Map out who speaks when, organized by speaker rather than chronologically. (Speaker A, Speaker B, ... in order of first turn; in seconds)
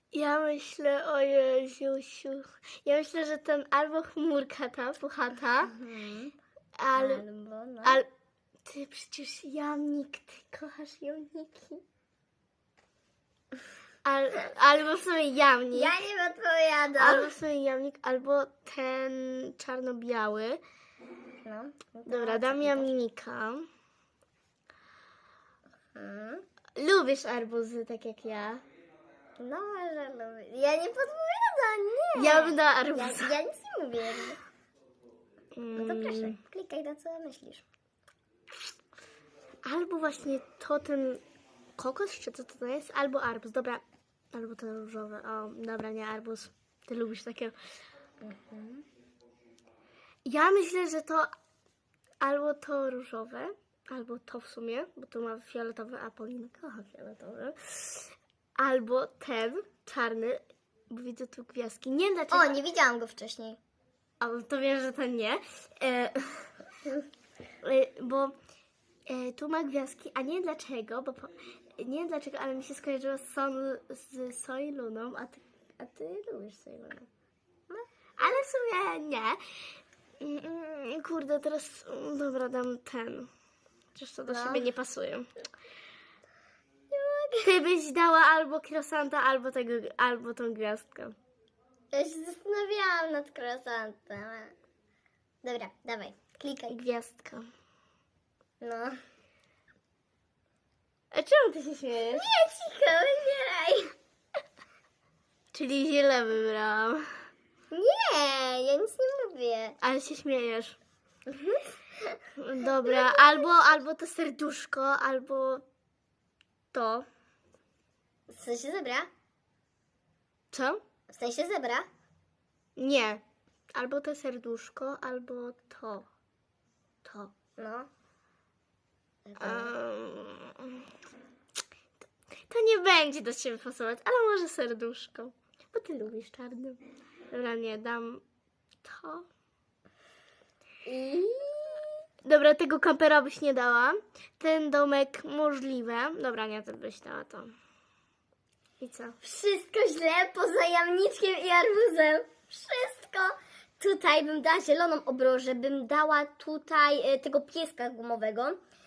Speaker A: 0.1-5.7, 6.8-7.2, 8.7-11.8, 14.1-15.9, 17.0-20.6, 22.1-23.7, 26.8-28.6, 32.1-33.3, 35.6-36.4, 39.6-41.2, 41.8-47.5, 50.2-51.3, 52.2-62.6, 64.2-66.5, 67.6-68.4, 69.1-77.1, 78.2-79.4, 80.2-83.3, 84.0-85.3, 87.4-91.2, 96.7-97.5, 101.1-102.2, 105.5-107.0, 109.8-110.8, 112.4-115.6, 116.7-117.1, 120.5-120.8, 122.8-123.2, 123.7-126.1, 127.0-127.3, 129.4-130.9, 132.5-136.8, 137.3-138.2, 138.8-139.3, 142.2-147.5, 148.8-149.2
Speaker B: 5.7-6.3, 6.9-8.0, 15.7-17.4, 21.4-22.9, 25.9-26.4, 29.4-34.4, 35.8-37.6, 48.2-48.9, 62.3-63.6, 77.7-78.4, 84.3-84.7, 86.9-87.5, 91.9-94.5, 95.4-96.8, 98.6-99.0, 102.1-103.9, 107.7-109.8, 111.3-112.2, 112.9-113.4, 118.3-119.1, 121.1-121.9, 127.6-127.9, 129.2-129.7, 140.9-141.9, 149.2-158.6